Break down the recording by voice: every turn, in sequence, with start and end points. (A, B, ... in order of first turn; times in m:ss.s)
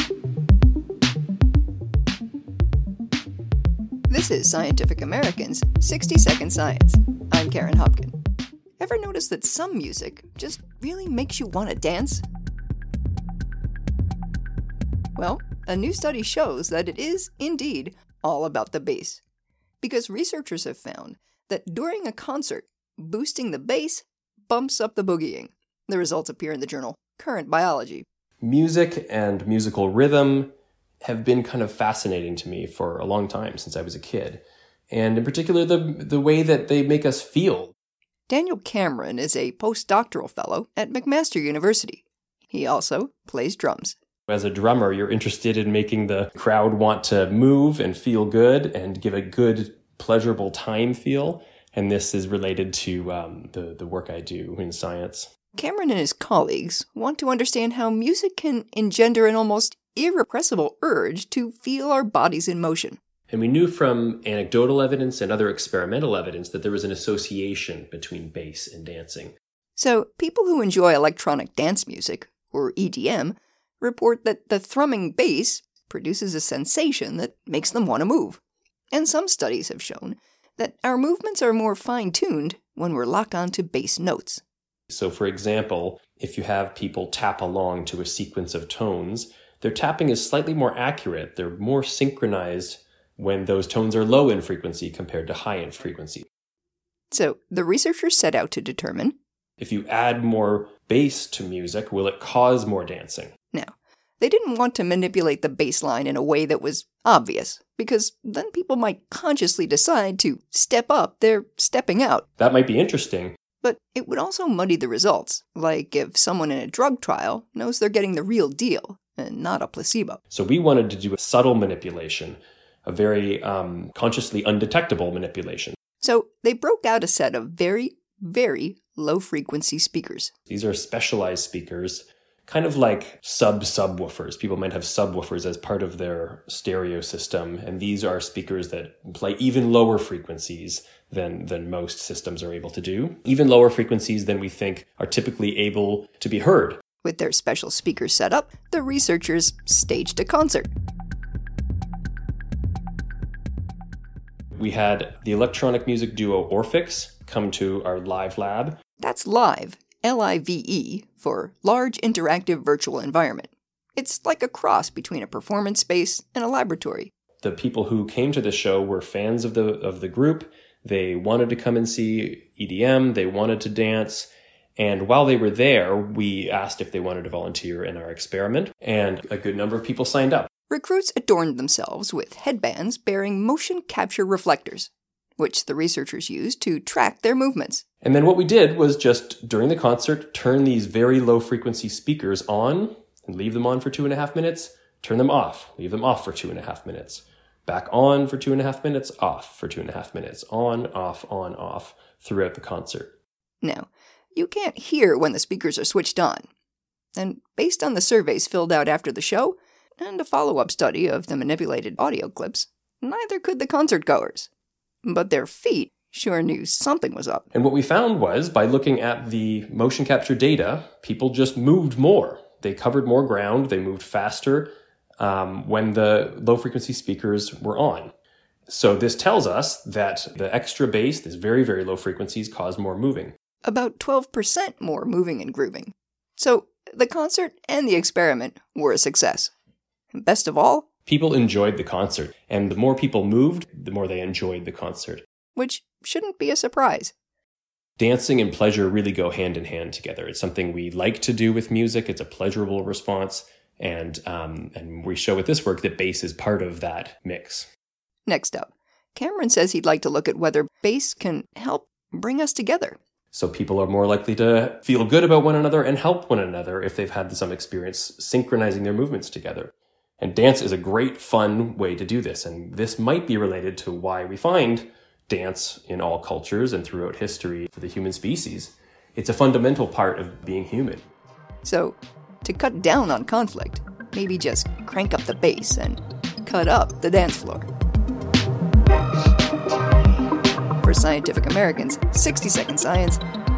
0:04.1-0:08.2 A
0:08.8-0:12.3 A
0:15.2-0:19.2 A
0:19.8-0:28.1 A
0:28.4-0:37.7 B
0:38.3-0:44.0 A
0:44.3-0:55.3 B
0:55.6-1:03.0 A
1:03.3-1:09.4 B
1:09.8-1:18.4 A
1:18.9-1:24.4 A
1:24.9-1:36.3 B
1:37.1-1:39.2 A
1:39.6-1:43.3 B
1:43.5-1:52.3 A
1:52.4-1:53.4 B
1:53.6-2:00.2 A
2:00.3-2:05.8 B
2:06.0-2:10.3 A
2:10.5-2:26.8 B
2:27.0-2:30.7 A
2:34.5-2:38.8 B
2:39.0-2:47.1 A
2:47.4-3:00.5 B
3:00.7-3:07.8 A
3:08.0-3:23.1 B
3:23.6-3:26.5 A
3:27.2-3:34.5 A
3:35.0-3:37.5 A
3:37.5-3:48.1 B
3:48.7-3:53.4 B
3:53.6-3:59.5 A
4:00.1-4:00.9 A
4:01.1-4:05.2 B
4:05.6-4:07.1 A
4:08.0-4:17.7 B
4:18.3-4:23.0 A
4:23.3-4:41.1 B
4:41.6-4:47.7 A
4:50.8-4:53.2 A